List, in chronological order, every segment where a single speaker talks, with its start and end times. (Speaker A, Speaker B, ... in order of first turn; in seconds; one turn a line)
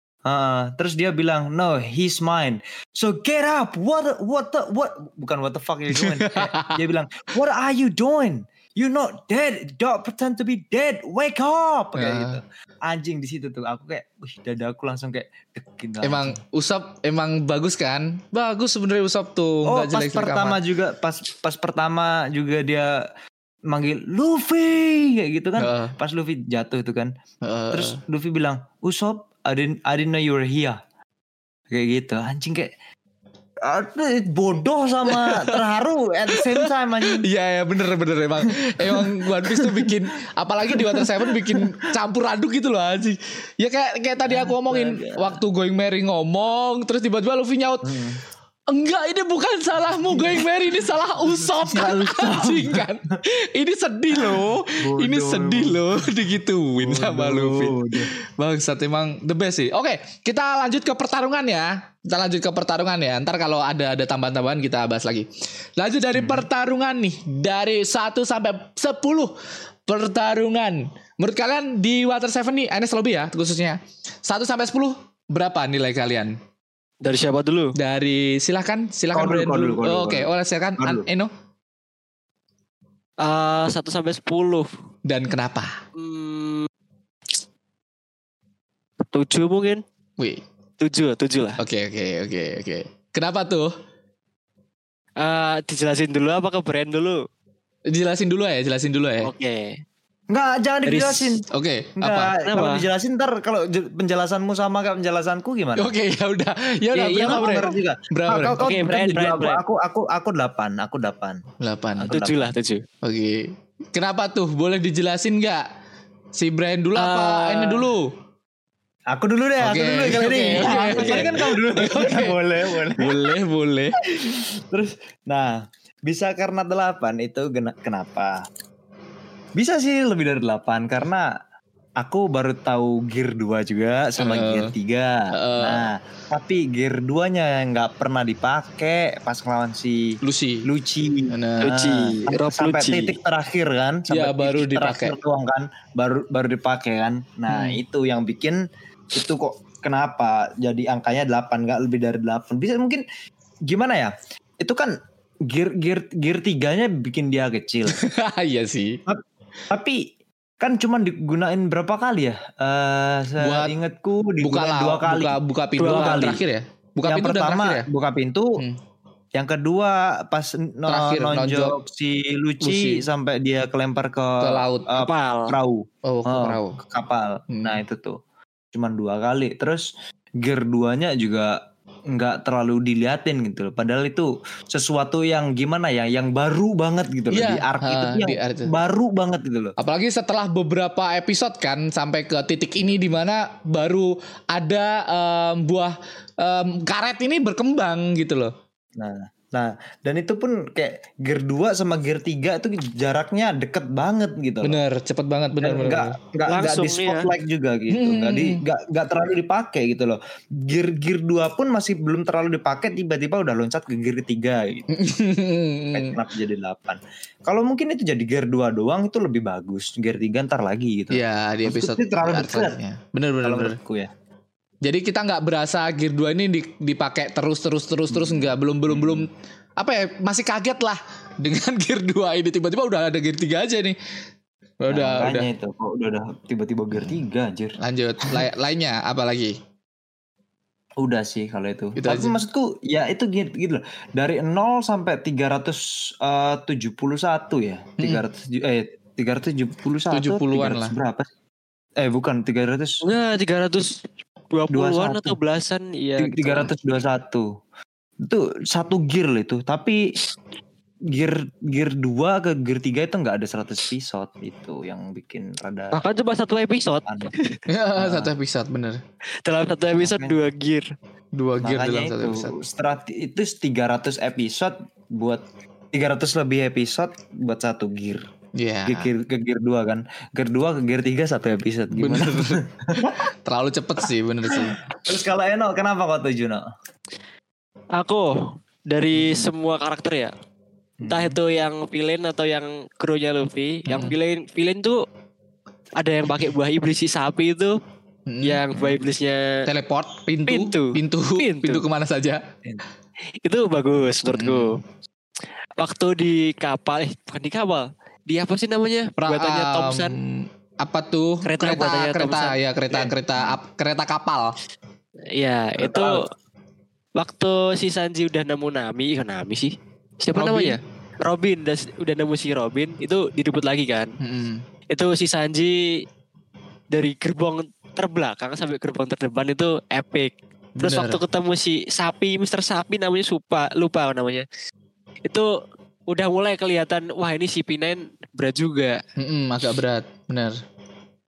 Speaker A: 0.2-16.4
Speaker B: 5.9-6.8
Speaker B: 12.0-12.4
Speaker B: 16.0-20.6
Speaker A: 19.7-23.1
Speaker A: 23.7-27.1
Speaker B: 25.6-25.9
Speaker B: 27.4-28.0
Speaker A: 27.7-30.8
Speaker A: 31.7-32.7
Speaker A: 33.6-37.2
Speaker B: 35.1-35.6
Speaker B: 36.3-47.9
Speaker A: 38.8-39.9
Speaker A: 40.7-41.8
Speaker A: 44.3-45.4
Speaker A: 47.9-48.2
Speaker B: 48.7-69.3
Speaker A: 50.1-50.4
Speaker A: 51.4-52.9
Speaker A: 54.1-55.9
Speaker A: 56.8-58.1
Speaker A: 66.2-66.4
Speaker B: 69.9-76.4
Speaker C: 77.0-77.7
Speaker B: 77.8-81.3
Speaker A: 79.1-81.1
Speaker C: 83.2-84.7
Speaker B: 85.1-85.8
Speaker C: 86.0-86.7
Speaker C: 89.1-89.8
Speaker C: 90.8-91.6
Speaker B: 91.6-93.7
Speaker C: 95.2-97.3
Speaker B: 97.9-99.3
Speaker C: 99.2-99.8
Speaker A: 100.3-101.5
Speaker C: 100.8-101.4
Speaker B: 101.5-102.3
Speaker A: 102.0-105.9
Speaker C: 102.4-102.9
Speaker B: 105.8-108.6
Speaker A: 107.0-111.4
Speaker C: 108.6-109.6
Speaker B: 111.6-112.2
Speaker A: 112.0-112.5
Speaker C: 112.1-112.8
Speaker B: 113.0-115.7
Speaker B: 116.3-118.1
Speaker C: 117.0-117.9
Speaker A: 119.1-123.3
Speaker B: 119.6-122.4
Speaker C: 120.1-121.5
Speaker B: 123.0-124.0
Speaker A: 124.0-128.5
Speaker A: 129.6-131.3
Speaker A: 132.0-153.0
Speaker B: 134.2-134.7
Speaker B: 135.3-135.9
Speaker B: 140.2-140.7
Speaker B: 141.3-141.7
Speaker C: 141.6-143.2
Speaker B: 144.1-145.1
Speaker B: 147.5-147.8
Speaker A: 153.7-158.0
Speaker B: 157.9-159.0
Speaker A: 159.1-160.1
Speaker A: 160.6-166.4
Speaker B: 163.4-163.8
Speaker B: 164.4-167.9
Speaker C: 165.8-166.3
Speaker A: 167.0-168.6
Speaker A: 169.3-178.2
Speaker B: 170.9-171.8
Speaker B: 172.6-173.1
Speaker B: 174.4-174.9
Speaker C: 175.0-175.6
Speaker B: 176.1-176.8
Speaker B: 177.5-177.8
Speaker A: 178.7-189.8
Speaker B: 187.3-188.7
Speaker B: 189.8-198.5
Speaker A: 199.0-204.8
Speaker B: 204.6-206.2
Speaker A: 205.6-214.9
Speaker C: 206.5-207.3
Speaker B: 207.9-208.6
Speaker B: 214.9-216.2
Speaker A: 215.9-222.8
Speaker B: 221.1-223.8
Speaker A: 223.4-224.1
Speaker B: 224.8-234.0
Speaker A: 228.1-229.3
Speaker B: 234.8-235.5
Speaker A: 234.9-238.4
Speaker B: 237.8-239.6
Speaker A: 241.0-251.3
Speaker B: 242.0-242.3
Speaker B: 250.1-250.9
Speaker A: 252.0-253.0
Speaker C: 253.0-256.7
Speaker A: 254.7-255.4
Speaker A: 256.2-257.5
Speaker A: 258.2-260.1
Speaker A: 261.1-266.0
Speaker C: 265.9-267.5
Speaker A: 267.1-267.5
Speaker B: 267.7-269.0
Speaker A: 268.0-268.3
Speaker C: 269.4-270.9
Speaker A: 270.0-270.4
Speaker B: 271.4-272.6
Speaker A: 271.6-278.2
Speaker B: 278.6-279.1
Speaker A: 278.9-283.2
Speaker B: 281.9-284.8
Speaker A: 284.5-286.7
Speaker C: 288.0-290.3
Speaker A: 289.1-289.5
Speaker A: 291.0-291.4
Speaker C: 291.1-295.0
Speaker B: 293.9-294.1
Speaker C: 296.0-297.8
Speaker B: 298.3-298.6
Speaker C: 298.4-299.5
Speaker A: 298.7-299.0
Speaker B: 299.7-302.4
Speaker C: 300.5-301.8
Speaker C: 303.4-304.8
Speaker B: 304.3-304.8
Speaker C: 305.8-310.2
Speaker B: 309.2-314.6
Speaker C: 311.4-312.6
Speaker A: 312.9-313.6
Speaker C: 315.4-316.3
Speaker A: 315.8-316.2
Speaker C: 317.2-324.1
Speaker B: 320.4-320.8
Speaker B: 324.2-324.6
Speaker C: 324.9-326.0
Speaker C: 326.9-334.5
Speaker B: 330.8-331.2
Speaker C: 336.1-339.0
Speaker B: 339.2-340.6